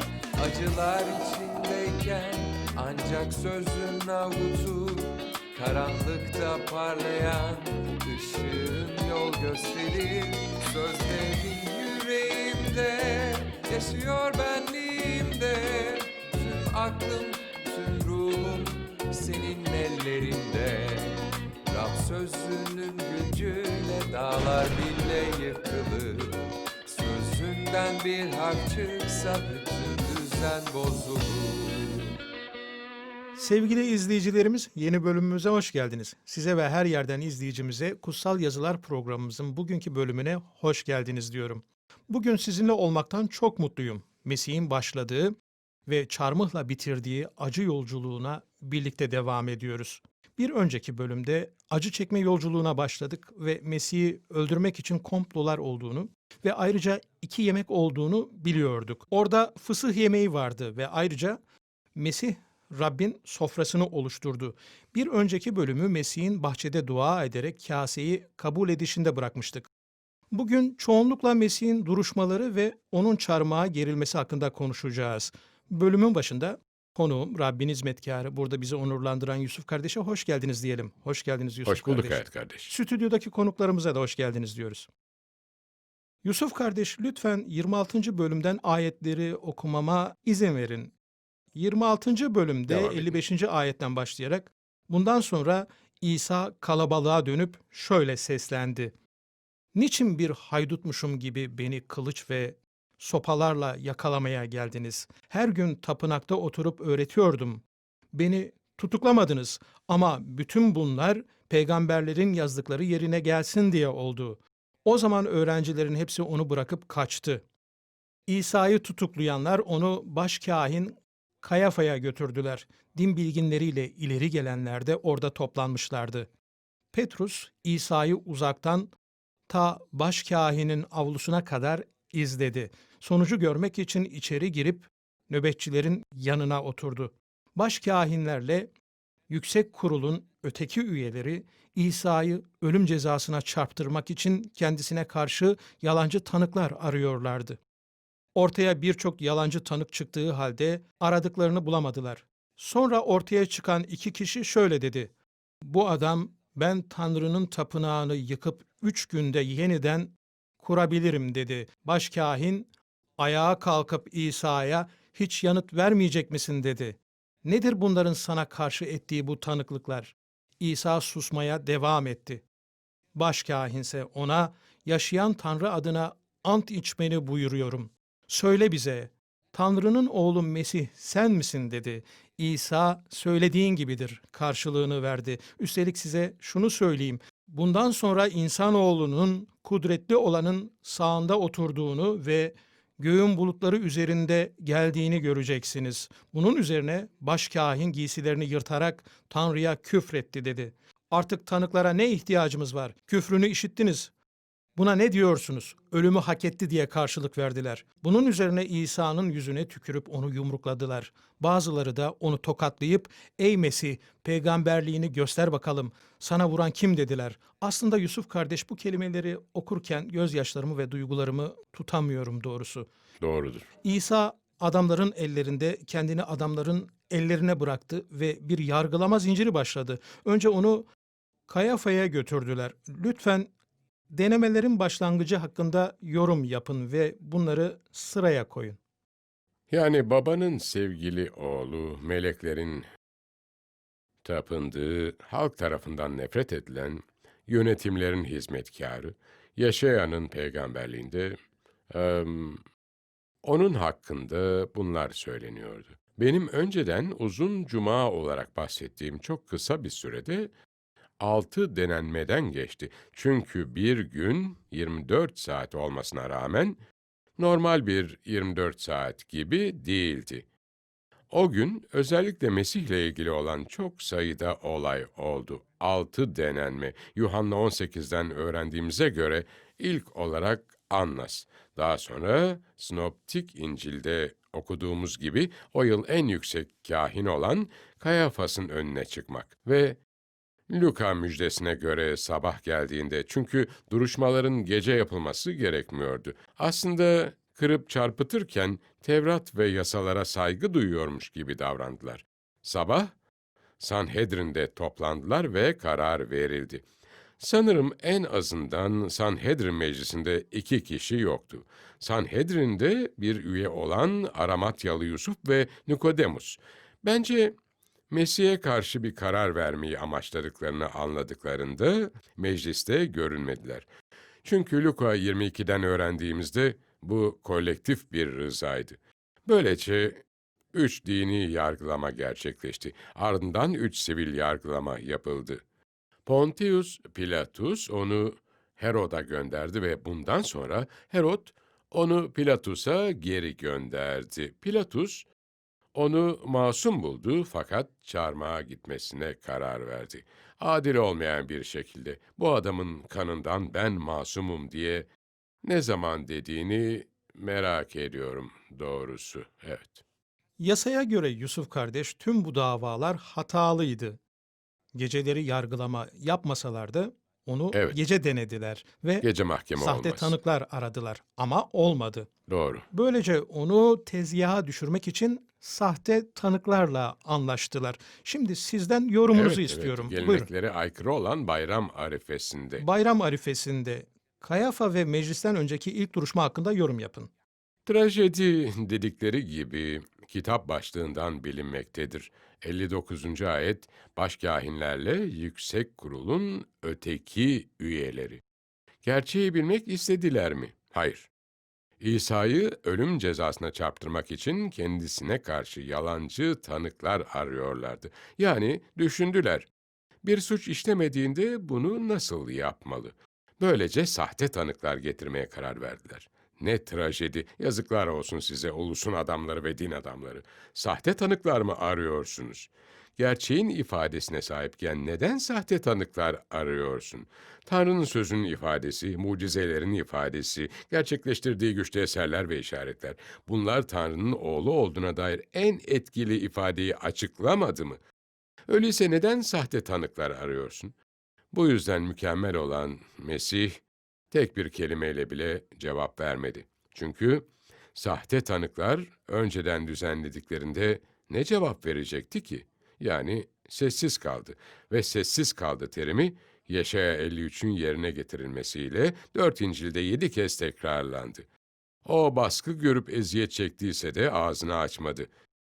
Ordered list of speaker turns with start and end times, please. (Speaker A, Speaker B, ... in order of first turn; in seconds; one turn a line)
Speaker A: 0.4-32.1
Speaker B: 33.4-45.4
Speaker B: 45.9-61.4
Speaker B: 62.0-69.7
Speaker B: 70.3-84.9
Speaker C: 81.7-82.7
Speaker B: 86.2-90.9
Speaker B: 91.5-98.9
Speaker C: 92.7-93.2
Speaker B: 99.7-117.4
Speaker B: 118.3-126.3
Speaker B: 126.9-128.9
Speaker B: 129.5-138.7
Speaker B: 139.3-147.6
Speaker B: 148.3-155.1
Speaker B: 155.6-172.4
Speaker B: 173.2-204.1
Speaker B: 204.8-222.9
Speaker C: 223.2-223.7
Speaker B: 223.8-230.9
Speaker B: 231.5-233.5
Speaker B: 234.1-238.8
Speaker C: 239.7-242.9
Speaker C: 244.2-251.4
Speaker C: 251.9-252.6
Speaker C: 253.4-260.5
Speaker C: 261.2-266.8
Speaker C: 267.4-270.5
Speaker C: 271.3-290.0
Speaker C: 290.7-303.1
Speaker C: 303.8-306.9
Speaker C: 307.4-317.6
Speaker C: 318.1-323.9
Speaker C: 324.4-330.2
Speaker C: 330.7-335.6
Speaker C: 336.3-345.3
Speaker C: 345.9-355.1
Speaker C: 355.6-360.0
Speaker B: 360.6-364.2
Speaker B: 364.9-369.3
Speaker C: 369.2-370.4
Speaker B: 369.8-372.3
Speaker C: 372.5-372.9
Speaker B: 372.9-380.5
Speaker C: 379.3-382.9
Speaker B: 382.8-387.3
Speaker C: 387.9-398.4
Speaker C: 399.0-401.3
Speaker C: 402.0-409.7
Speaker C: 410.2-438.0
Speaker C: 438.7-440.9
Speaker C: 441.5-461.5
Speaker C: 462.1-465.3